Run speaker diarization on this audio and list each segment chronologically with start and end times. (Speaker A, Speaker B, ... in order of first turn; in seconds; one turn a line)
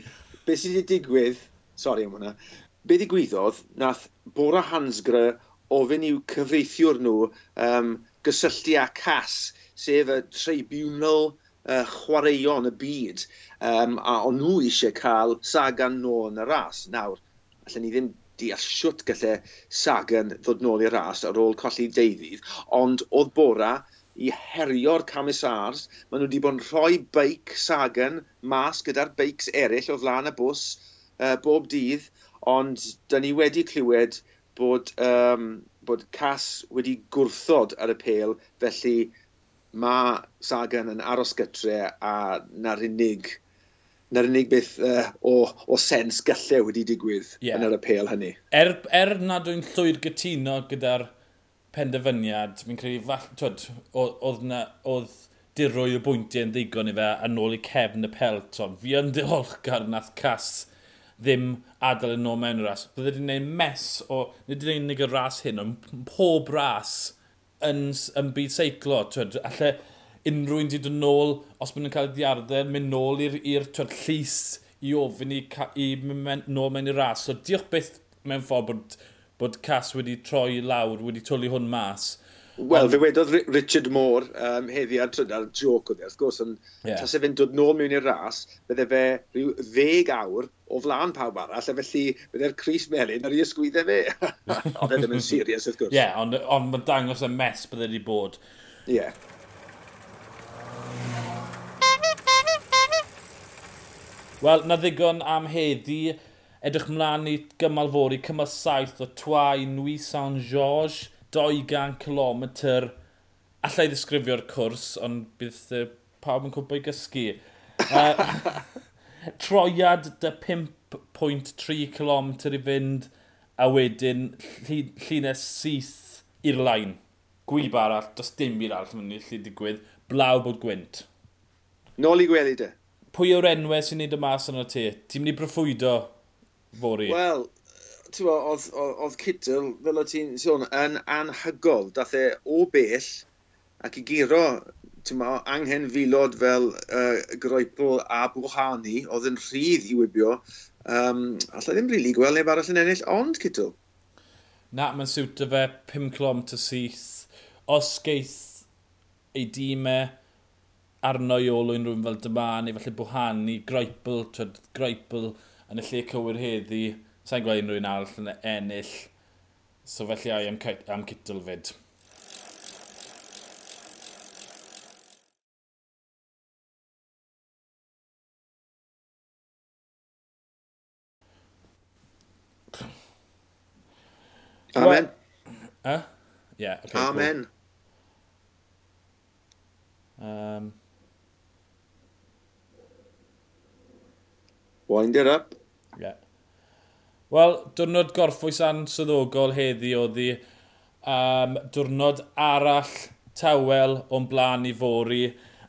Speaker A: 0.5-39.1
Speaker A: 39.7-43.4
Speaker A: 44.1-48.4
Speaker B: 47.4-47.7
Speaker B: 48.5-51.1
Speaker B: 51.7-83.0
Speaker A: 82.6-96.0
Speaker B: 95.9-98.4
Speaker A: 98.9-99.2
Speaker B: 104.4-112.9
Speaker B: 113.6-118.7
Speaker B: 119.4-131.1
Speaker A: 132.0-132.8
Speaker B: 133.1-136.1
Speaker B: 136.7-137.2
Speaker A: 137.1-137.6
Speaker A: 138.1-143.3
Speaker A: 143.8-153.8
Speaker B: 154.7-158.7
Speaker B: 159.3-160.2
Speaker B: 161.0-169.1
Speaker B: 169.8-171.7
Speaker A: 184.7-185.1
Speaker B: 184.8-185.1
Speaker B: 186.6-187.3
Speaker A: 186.9-187.5
Speaker B: 190.2-190.8
Speaker A: 194.9-195.6
Speaker B: 197.3-200.4
Speaker B: 201.1-205.3